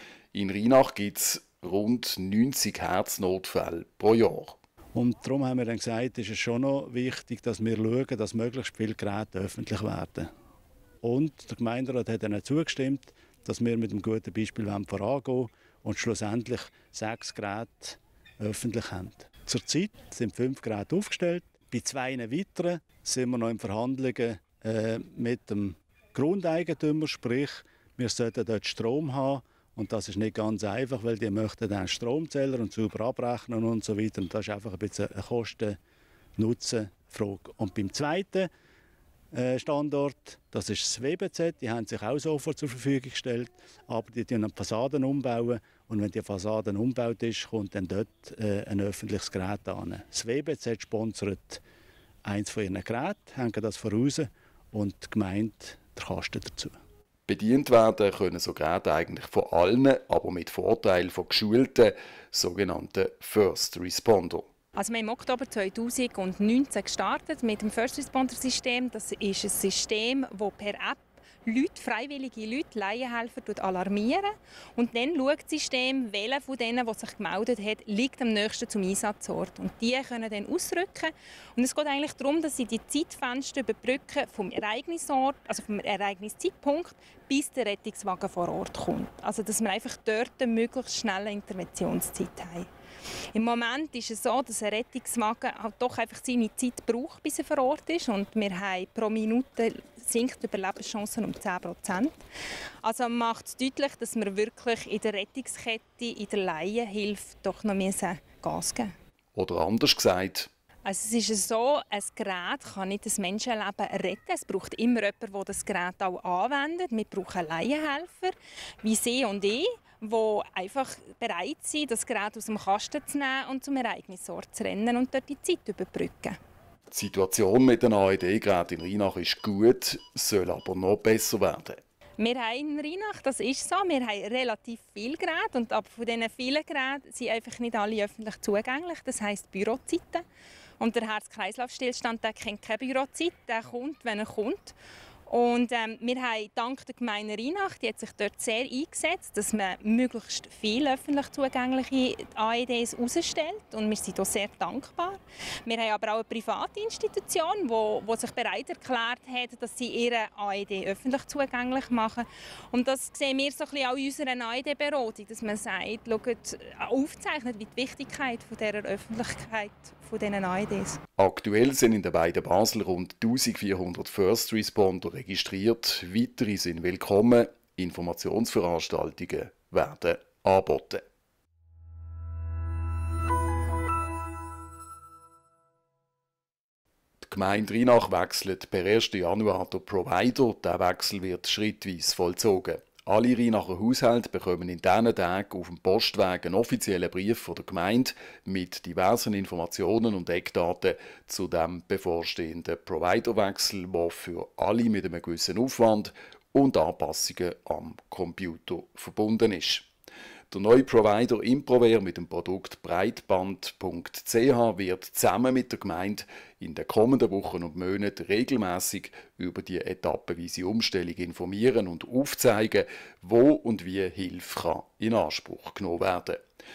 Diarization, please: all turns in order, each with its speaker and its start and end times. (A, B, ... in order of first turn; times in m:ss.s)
0:00.3-0:04.6 A
0:05.0-0:10.3 B
0:11.0-0:35.8 B
0:36.4-0:38.5 B
0:39.3-0:51.6 B
0:52.2-0:56.8 B
0:57.3-1:04.5 A
1:04.8-1:32.7 C
1:33.3-1:42.2 C
1:42.8-1:48.9 C
1:49.4-1:50.5 A
1:50.8-2:06.4 C
2:06.9-2:11.8 A
2:12.2-2:20.2 C
2:20.8-2:24.8 C
2:25.3-2:51.0 C
2:51.2-3:01.0 A
3:07.2-3:29.9 A
3:30.5-3:46.4 A